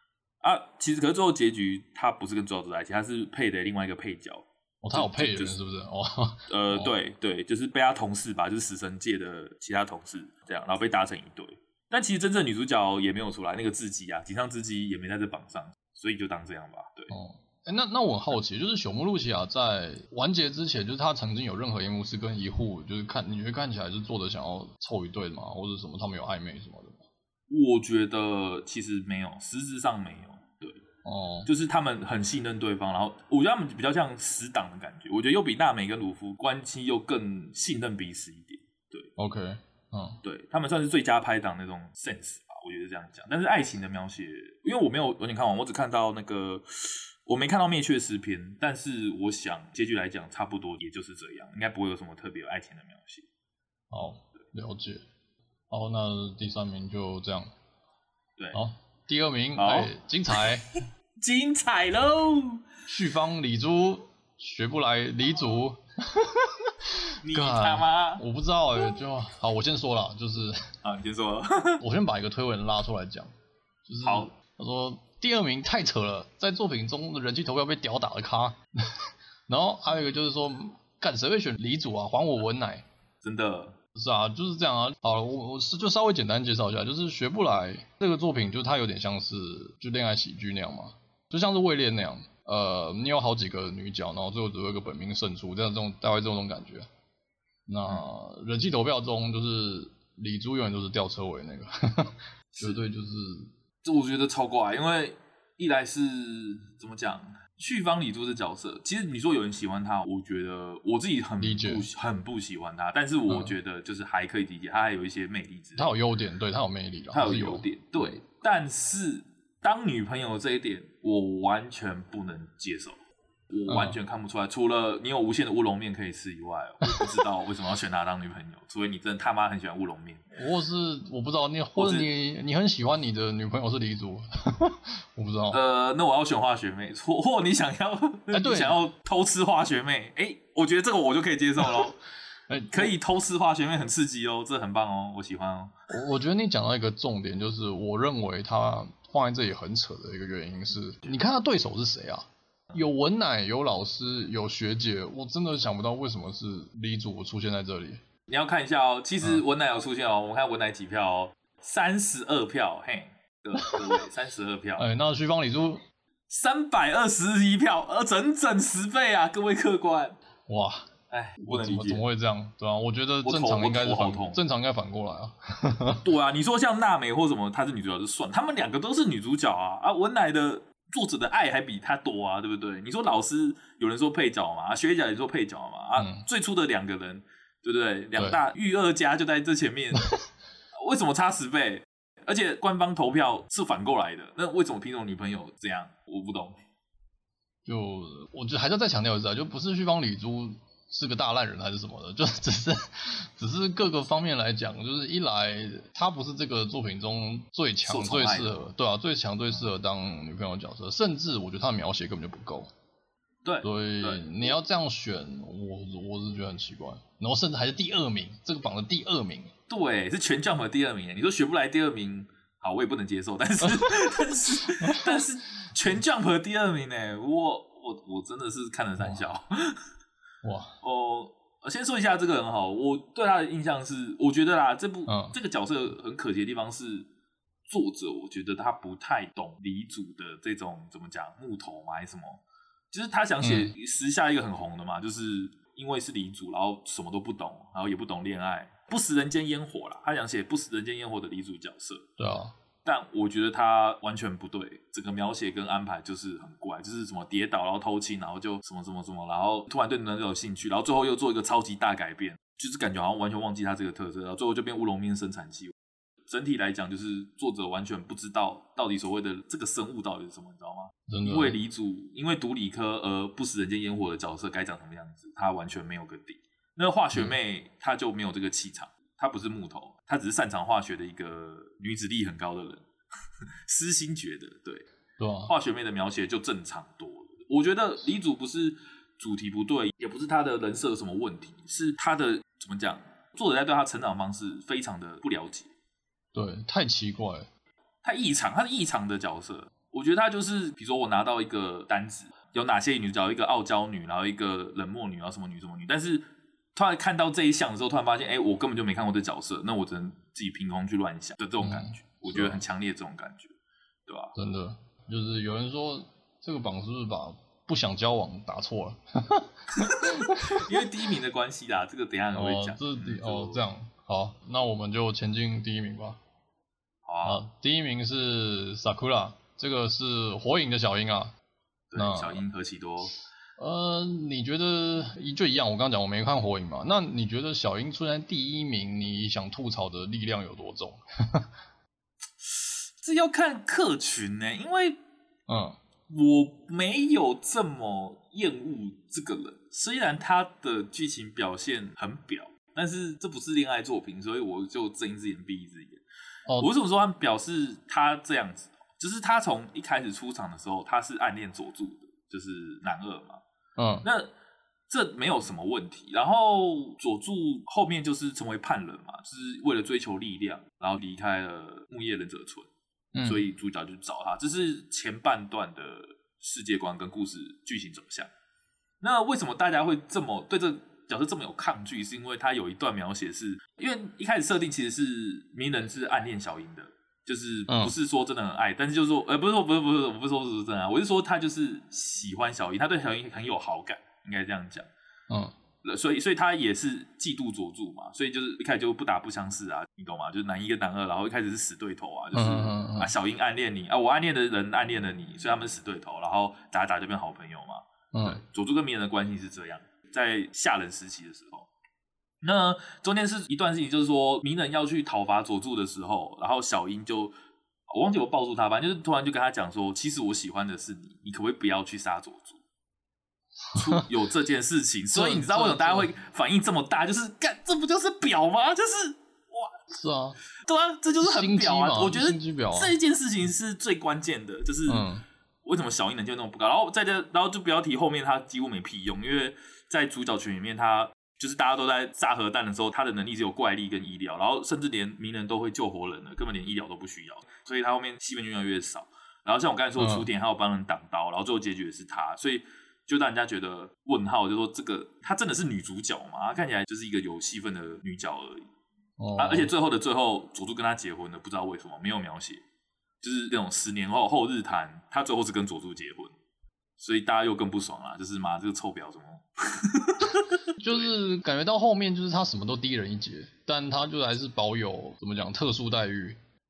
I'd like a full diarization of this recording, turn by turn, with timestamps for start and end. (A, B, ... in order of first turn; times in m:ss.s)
0:00.4-0:05.6 A
0:04.8-0:06.9 B
0:06.5-0:17.1 A
0:17.1-0:27.1 B
0:27.5-0:30.8 A
0:31.0-0:31.5 B
0:31.5-0:39.1 A
0:39.2-0:40.2 B
0:40.2-0:53.3 A
0:53.9-0:55.0 B
0:55.7-0:57.5 B
0:58.4-0:58.6 A
0:58.5-1:00.7 B
0:59.6-1:00.4 A
1:01.2-1:02.7 A
1:02.9-1:10.6 B
1:07.2-1:08.2 A
1:10.8-1:11.8 A
1:11.8-1:13.3 B
1:13.9-1:22.9 B
1:14.0-1:14.3 A
1:23.2-1:23.8 A
1:24.0-1:36.9 B
1:37.7-1:43.5 B
1:43.8-1:56.0 A
1:51.4-1:51.9 B
1:53.3-1:53.5 B
1:55.8-1:58.1 B
1:57.1-2:03.0 A
2:03.5-2:10.3 A
2:03.7-2:04.0 B
2:06.8-2:07.2 B
2:10.3-2:15.6 B
2:11.8-2:12.1 A
2:15.5-2:22.0 A
2:18.3-2:18.8 B
2:21.6-2:21.9 B
2:22.5-2:22.9 B
2:22.7-2:25.7 A
2:25.9-2:38.0 B
2:38.3-2:44.9 A
2:44.8-2:45.8 B
2:46.3-2:50.2 A
2:50.5-2:56.1 B
2:51.1-2:52.0 A
2:53.2-2:54.4 A
2:56.0-3:10.1 A
3:06.0-3:06.2 B
3:10.8-3:16.6 A
3:17.7-3:32.7 B
3:27.8-3:28.7 A
3:33.4-3:34.5 A
3:33.6-3:39.5 B
3:39.7-3:49.8 A
3:43.6-3:45.3 B
3:50.4-3:50.8 B
3:50.8-3:57.1 A
3:55.1-3:55.4 B
3:57.7-4:12.1 A
4:03.4-4:03.7 B
4:12.2-4:12.5 B
4:12.8-4:25.7 A
4:26.3-4:42.9 A
4:31.1-4:31.6 B
4:43.6-4:44.8 A
4:45.2-4:45.5 B
4:45.5-4:55.7 A
4:56.3-4:57.5 B
4:58.0-5:06.2 A
5:06.8-5:13.5 A
5:11.6-5:12.6 B
5:14.1-5:14.4 A
5:14.4-5:20.7 B
5:19.7-5:23.6 A
5:22.4-5:26.2 B
5:27.1-5:27.4 A
5:27.2-5:31.3 B
5:31.9-5:33.2 A
5:32.0-5:32.4 B
5:33.6-5:41.5 B
5:42.4-5:45.0 A
5:45.5-5:45.8 B
5:46.1-5:56.0 A
5:56.6-6:03.4 A
6:03.8-6:04.0 B
6:04.0-6:04.3 A
6:04.9-6:12.7 A
6:13.1-6:13.4 B
6:13.2-6:18.3 A
6:19.0-6:34.9 A
6:27.7-6:27.9 B
6:35.8-6:51.7 A
6:42.3-6:43.1 B
6:48.1-6:48.4 B
6:52.4-6:57.3 A
6:57.9-7:02.6 A
7:03.7-7:04.0 B
7:03.7-7:09.7 A
7:05.1-7:06.1 B
7:09.9-7:10.4 B
7:10.6-7:15.1 A
7:11.2-7:12.9 B
7:14.9-7:15.2 B
7:15.6-7:38.7 A
7:30.0-7:30.3 B
7:39.2-7:39.7 B
7:39.4-7:42.6 A
7:43.2-7:46.3 A
7:47.0-7:50.8 A
7:50.8-7:56.4 B